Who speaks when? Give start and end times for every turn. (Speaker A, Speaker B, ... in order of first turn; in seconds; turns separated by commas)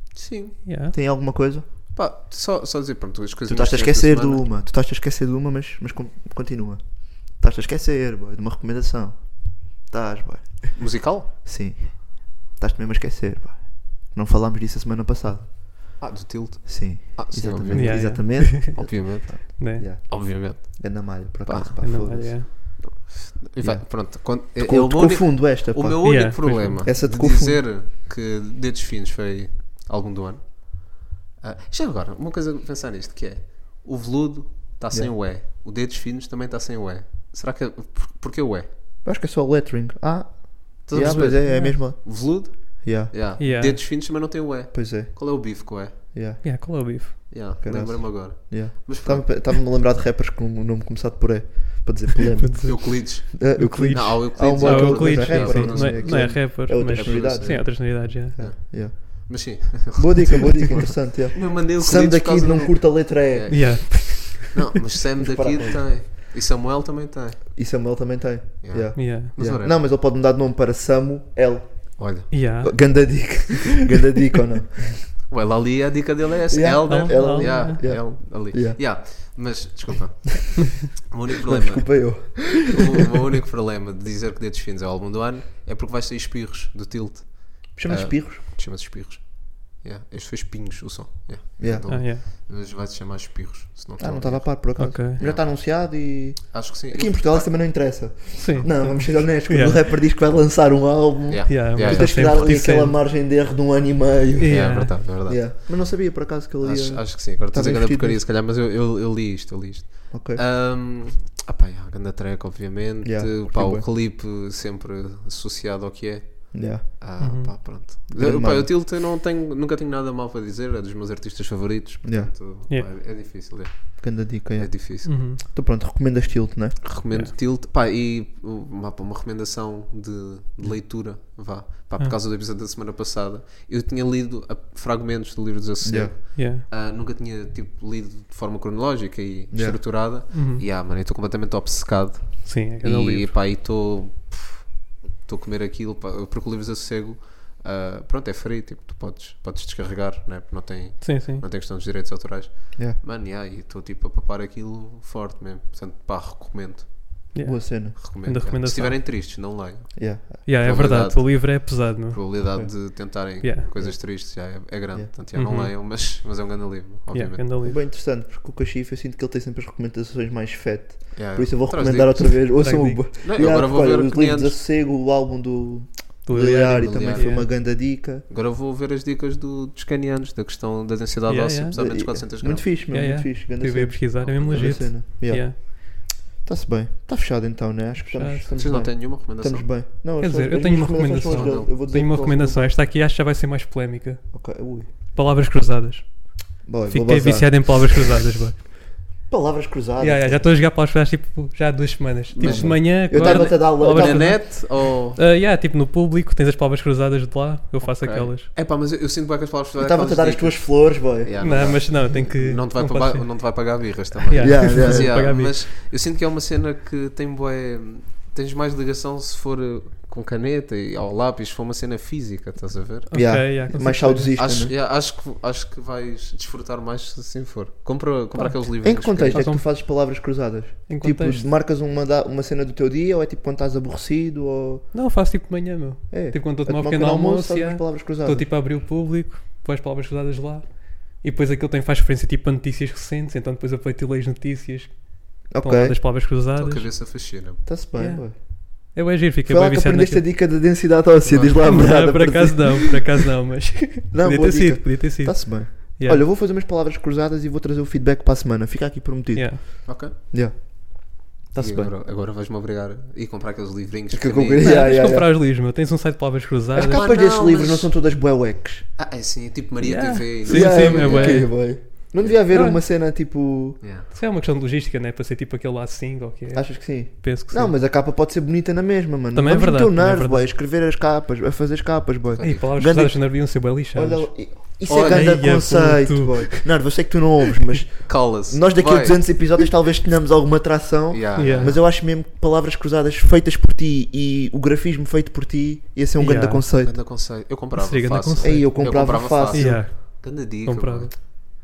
Speaker A: 0.1-0.6, Speaker B: 0.6-0.9, Speaker C: 0.9-1.7, Speaker A: 1.9-4.4, Speaker C: 3.5-16.0, Speaker A: 10.8-11.3, Speaker A: 16.0-38.7, Speaker C: 16.6-22.8, Speaker B: 17.7-19.9, Speaker B: 21.8-22.5, Speaker C: 23.6-27.7, Speaker B: 26.0-26.8, Speaker C: 39.0-43.1, Speaker A: 40.9-46.0, Speaker B: 40.9-41.8, Speaker B: 43.4-43.8, Speaker C: 44.7-46.9, Speaker B: 46.4-47.3, Speaker A: 47.3-49.8, Speaker C: 47.6-64.2, Speaker B: 52.4-58.4, Speaker A: 52.6-60.6, Speaker A: 61.3-67.5, Speaker B: 63.5-64.4, Speaker C: 65.2-66.0, Speaker C: 67.5-75.1, Speaker A: 68.6-69.8, Speaker B: 69.0-69.3, Speaker A: 72.0-72.3, Speaker B: 72.3-73.5, Speaker A: 75.3-95.7, Speaker C: 76.5-79.0, Speaker B: 76.8-77.8, Speaker C: 81.4-82.8, Speaker C: 87.8-88.4, Speaker C: 91.6-92.0, Speaker B: 91.9-92.2, Speaker C: 94.0-108.2, Speaker B: 94.8-95.2, Speaker A: 96.5-97.6, Speaker B: 98.4-99.8, Speaker A: 101.3-102.7, Speaker B: 101.5-103.0, Speaker B: 104.4-105.0, Speaker A: 104.5-105.9, Speaker A: 106.6-125.3, Speaker C: 110.1-110.4, Speaker C: 113.0-113.9, Speaker C: 116.5-116.8, Speaker B: 117.2-117.5, Speaker C: 118.1-118.7, Speaker C: 122.0-122.3, Speaker C: 124.0-126.9, Speaker B: 125.0-125.4, Speaker A: 126.8-157.2, Speaker C: 135.8-136.2, Speaker B: 136.3-136.6, Speaker C: 139.5-139.8, Speaker B: 140.3-140.6, Speaker B: 142.4-143.3, Speaker B: 151.0-151.4, Speaker B: 157.3-159.0, Speaker C: 157.4-158.0, Speaker A: 158.0-167.4, Speaker C: 159.9-160.4, Speaker B: 160.4-162.2, Speaker C: 162.5-163.1, Speaker B: 163.4-163.7, Speaker C: 163.7-165.1, Speaker B: 165.3-165.7, Speaker B: 167.1-167.8, Speaker C: 167.6-178.2, Speaker A: 171.1-172.6, Speaker B: 172.6-173.0, Speaker A: 173.2-174.6, Speaker B: 176.2-177.4, Speaker A: 176.7-182.7, Speaker B: 181.3-181.8, Speaker C: 181.7-192.8, Speaker B: 182.9-185.6, Speaker A: 184.2-184.9, Speaker B: 188.1-188.5, Speaker A: 188.5-189.8, Speaker B: 190.2-194.4, Speaker A: 191.3-191.7, Speaker C: 194.3-194.9, Speaker B: 195.0-198.6, Speaker C: 196.6-198.0, Speaker C: 199.3-200.5, Speaker B: 200.0-208.5, Speaker A: 202.3-205.2, Speaker C: 202.4-204.4, Speaker A: 207.8-223.4, Speaker C: 209.8-211.5, Speaker B: 211.4-213.7, Speaker B: 214.3-215.6, Speaker C: 214.4-215.2, Speaker B: 223.1-224.4, Speaker C: 223.1-224.7, Speaker A: 224.4-229.5, Speaker B: 228.3-230.2, Speaker C: 228.8-234.9, Speaker B: 230.9-231.5, Speaker B: 234.9-246.9, Speaker C: 236.1-238.5, Speaker C: 245.5-246.2, Speaker A: 246.5-247.6, Speaker C: 247.6-248.4, Speaker B: 247.9-250.3, Speaker C: 249.4-253.0, Speaker A: 251.2-251.8, Speaker B: 251.6-256.2, Speaker C: 254.1-261.9, Speaker B: 259.3-259.6, Speaker A: 259.9-260.1, Speaker A: 261.6-264.9, Speaker C: 264.1-265.3, Speaker B: 264.6-267.2, Speaker C: 266.7-268.9, Speaker A: 266.9-268.1, Speaker A: 269.0-272.4, Speaker B: 269.8-271.7, Speaker C: 270.5-273.8, Speaker B: 272.5-272.8, Speaker A: 273.8-274.1, Speaker B: 274.1-277.7, Speaker C: 276.5-296.9, Speaker B: 279.3-280.5, Speaker A: 282.3-282.7, Speaker B: 282.4-286.7, Speaker A: 284.9-285.4, Speaker A: 288.1-289.5, Speaker A: 291.1-291.8, Speaker B: 291.4-291.8, Speaker B: 296.2-296.6, Speaker A: 296.8-301.1, Speaker B: 297.7-298.9, Speaker C: 298.4-299.8, Speaker B: 299.5-301.3